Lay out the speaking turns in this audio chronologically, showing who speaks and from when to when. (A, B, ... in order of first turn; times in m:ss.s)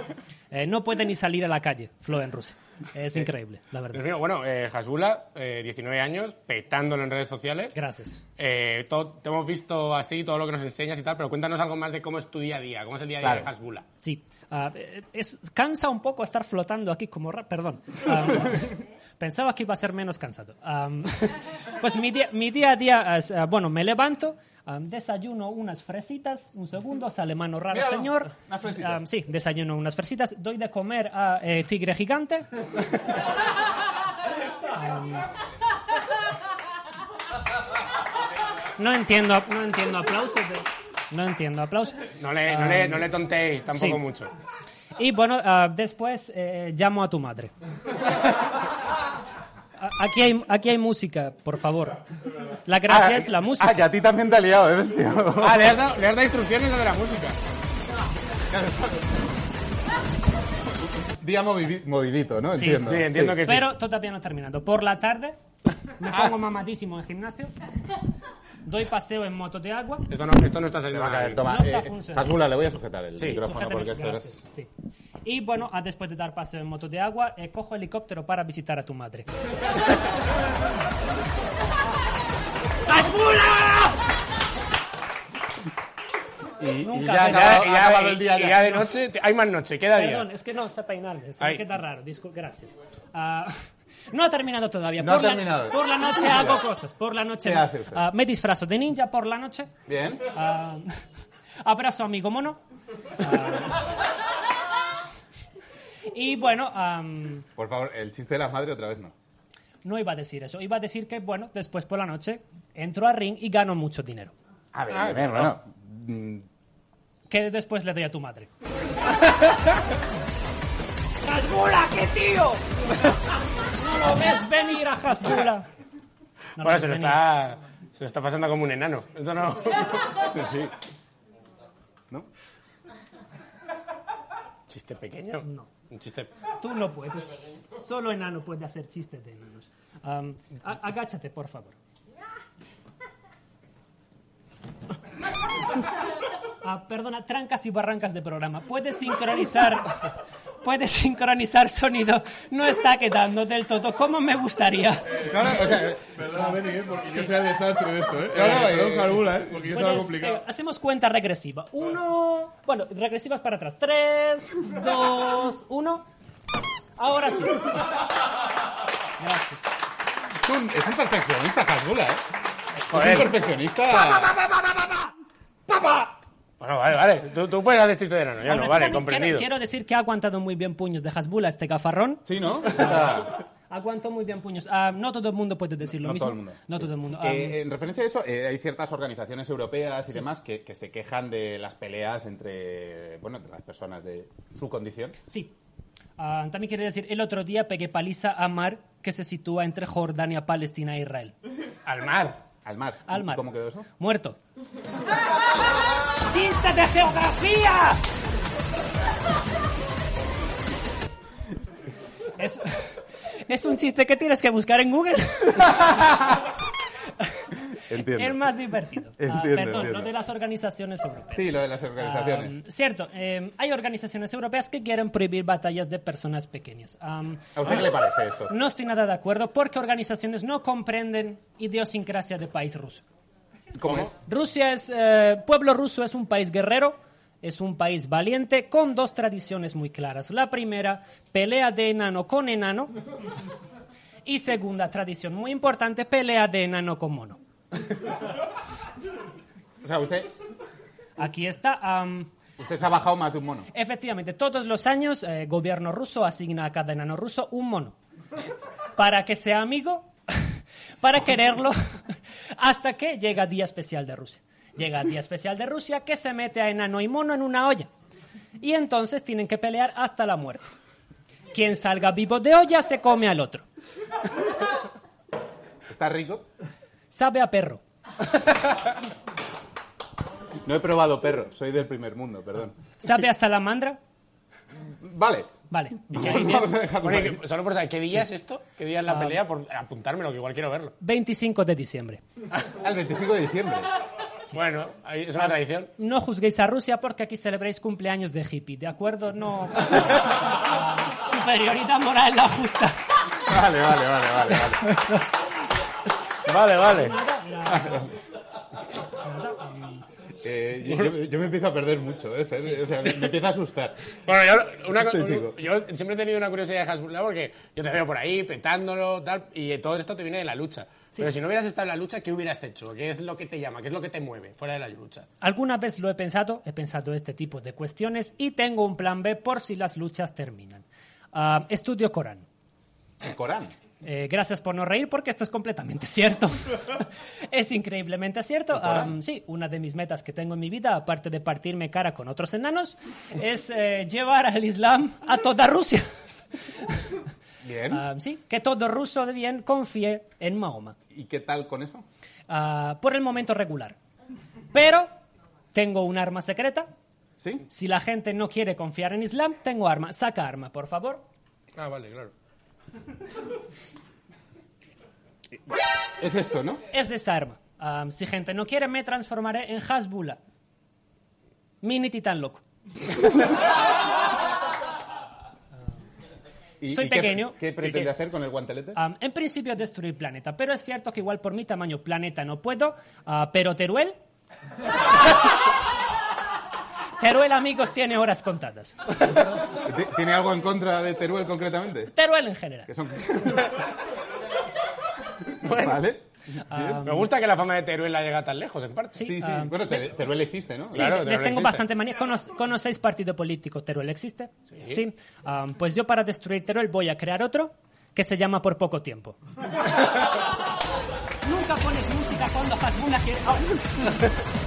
0:00.5-0:04.0 A
0:03.9-0:07.7 B
0:07.7-0:08.2 A
0:08.4-0:13.8 B
0:13.2-0:13.5 C
0:14.0-0:32.5 A
0:27.7-0:29.0 C
0:34.7-0:35.2 A
0:38.8-0:43.1 A
0:42.2-0:44.3 B
0:43.7-0:44.0 A
0:45.0-0:47.5 A
0:49.8-0:52.0 A
0:52.6-0:53.8 A
0:52.9-0:55.7 C
0:55.4-0:57.4 B
0:58.5-0:59.0 C
1:01.2-1:03.4 C
1:02.5-1:05.4 A
1:02.7-1:03.6 B
1:06.0-1:07.5 A
1:08.6-1:10.1 A
1:10.1-1:11.4 B
1:10.9-1:14.4 C
1:11.4-1:12.4 A
1:13.3-1:14.7 A
1:15.2-1:19.3 A
1:22.9-1:24.0 A
1:26.6-1:28.9 C
1:26.8-1:27.7 A
1:27.2-1:30.3 B
1:29.9-1:39.7 A
1:35.0-1:36.6 C
1:37.4-1:38.0 C
1:39.9-1:40.2 C
1:40.3-1:40.9 A
1:41.6-1:42.6 A
1:43.2-1:43.8 A
1:46.1-1:47.4 A
1:47.6-1:49.1 C
1:49.8-1:54.3 A
1:54.7-1:56.5 C
1:54.9-1:55.6 B
1:57.3-1:58.5 A
2:01.2-2:02.6 A
2:03.8-2:05.7 A
2:06.6-2:07.2 A
2:06.6-2:10.3 B
2:10.3-2:10.7 C
2:14.7-2:16.3 B
2:15.4-2:15.7 A
2:16.6-2:21.8 A
2:26.6-2:35.7 A
2:35.3-2:36.1 C
2:35.5-2:40.4 D
2:36.3-2:37.3 A
2:38.3-2:39.3 C
2:39.7-2:46.1 A
2:47.0-2:47.8 A
2:49.2-2:49.6 A
2:50.4-2:52.2 C
2:52.9-2:54.4 C
2:52.9-2:53.3 B
2:56.6-2:59.5 B
2:58.4-3:07.6 A
3:02.2-3:03.4 C
3:06.0-3:15.2 C
3:15.3-3:15.5 A
3:16.2-3:21.4 A
3:21.9-3:22.4 B
3:22.6-3:23.9 C
3:23.1-3:24.4 A
3:26.3-3:28.0 A
3:32.4-3:35.9 A
3:37.9-3:38.4 C
3:38.0-3:47.8 A
3:39.2-3:40.1 C
3:41.3-3:42.6 C
3:47.6-3:48.5 C
3:48.5-3:53.0 A
3:53.8-3:54.1 C
3:54.2-4:02.9 A
4:04.2-4:07.4 A
4:09.8-4:10.3 C
4:11.2-4:12.3 A
4:12.6-4:13.7 C
4:13.7-4:17.9 A
4:19.0-4:20.1 A
4:21.0-4:21.8 A
4:22.6-4:27.9 A
4:28.6-4:30.7 A
4:31.5-4:33.6 A
4:35.9-4:36.5 C
4:37.1-4:37.8 A
4:40.6-4:42.8 C
4:43.0-4:44.0 A
4:45.0-4:45.5 C
4:45.7-4:46.7 A
4:46.1-4:47.4 C
4:47.0-4:50.9 B
4:49.1-4:49.4 A
4:51.0-4:52.2 A
4:52.7-4:53.9 C
4:54.5-4:55.9 B
4:55.4-5:03.0 A
5:03.4-5:04.8 C
5:06.5-5:07.1 B
5:06.9-5:08.1 A
5:07.7-5:08.1 C
5:09.2-5:10.0 A
5:10.4-5:14.1 C
5:14.2-5:25.3 B
5:14.9-5:15.5 C
5:25.4-5:32.4 A
5:33.2-5:33.7 C
5:34.0-5:46.1 A
5:38.7-5:39.1 C
5:47.6-5:48.0 C
5:47.9-5:50.9 A
5:51.1-5:52.0 C
5:52.5-5:54.0 A
5:54.7-5:55.1 A
5:55.7-5:56.9 A
5:57.4-5:57.6 C
5:57.7-6:01.2 A
6:01.8-6:02.3 B
6:06.2-6:06.8 C
6:06.9-6:10.4 A
6:11.8-6:12.6 A
6:16.8-6:19.0 C
6:16.9-6:18.0 A
6:18.9-6:24.2 A
6:27.2-6:29.0 A
6:29.7-6:32.1 C
6:32.1-6:32.9 A
6:32.9-6:33.8 C
6:35.6-6:37.0 C
6:35.6-6:36.1 B
6:36.7-6:37.3 A
6:37.0-6:39.2 B
6:39.1-6:40.1 A
6:39.2-6:41.1 C
6:40.9-6:41.8 B
6:40.9-6:49.4 A
6:44.7-6:45.0 B
6:51.4-6:54.3 A